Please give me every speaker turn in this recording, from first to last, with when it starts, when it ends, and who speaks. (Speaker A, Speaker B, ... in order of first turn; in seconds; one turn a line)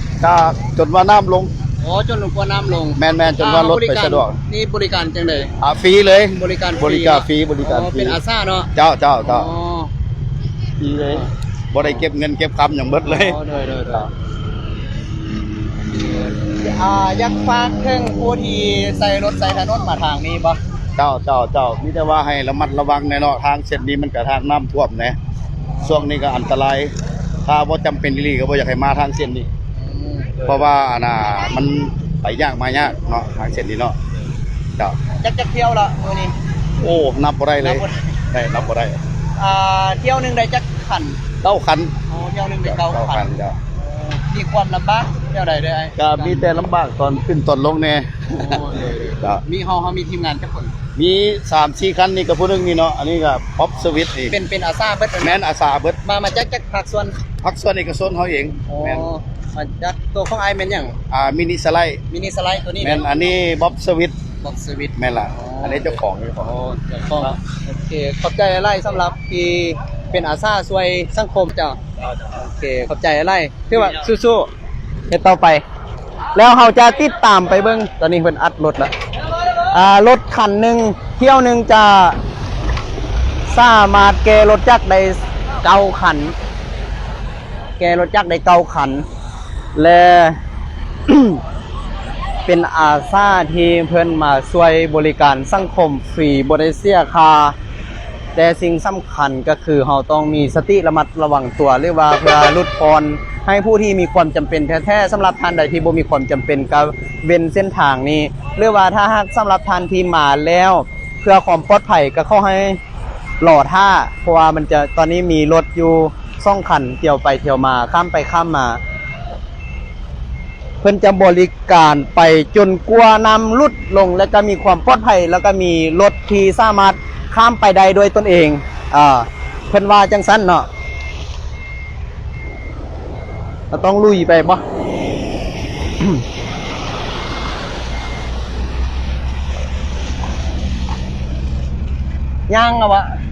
Speaker A: 0.2-1.5
Speaker B: 1.8-5.5
Speaker A: 3.0-4.4
Speaker A: 5.6-8.2
Speaker B: 6.3-8.7
Speaker A: 8.7-9.5
Speaker B: 9.2-9.9
Speaker A: 10.8-13.4
Speaker B: 13.0-14.1
Speaker B: 15.9-20.6
Speaker A: 21.0-25.2
Speaker A: 25.8-26.9
Speaker A: 27.4-29.5
Speaker B: 29.9-30.5
Speaker A: 30.4-34.0
Speaker B: 35.1-36.3
Speaker A: 36.8-39.0
Speaker B: 37.6-38.1
Speaker B: 39.4-41.2
Speaker A: 41.4-42.0
Speaker B: 42.1-43.3
Speaker A: 42.6-43.6
Speaker B: 43.8-46.5
Speaker A: 46.0-49.4
Speaker B: 48.3-50.7
Speaker A: 51.0-54.3
Speaker B: 54.3-55.4
Speaker A: 55.2-56.0
Speaker B: 56.0-57.2
Speaker A: 57.4-59.0
Speaker B: 58.7-61.0
Speaker A: 61.1-62.0
Speaker B: 62.1-63.0
Speaker A: 62.8-64.2
Speaker B: 64.4-74.5
Speaker A: 65.0-66.5
Speaker B: 75.1-75.6
Speaker B: 76.3-78.9
Speaker B: 79.7-82.2
Speaker B: 83.5-86.3
Speaker B: 87.8-89.0
Speaker B: 89.7-90.4
Speaker B: 91.1-91.4
Speaker B: 92.5-97.5
Speaker B: 98.3-112.8
Speaker B: 113.4-118.8
Speaker B: 120.8-130.7
Speaker B: 133.7-134.6
Speaker B: 142.5-143.1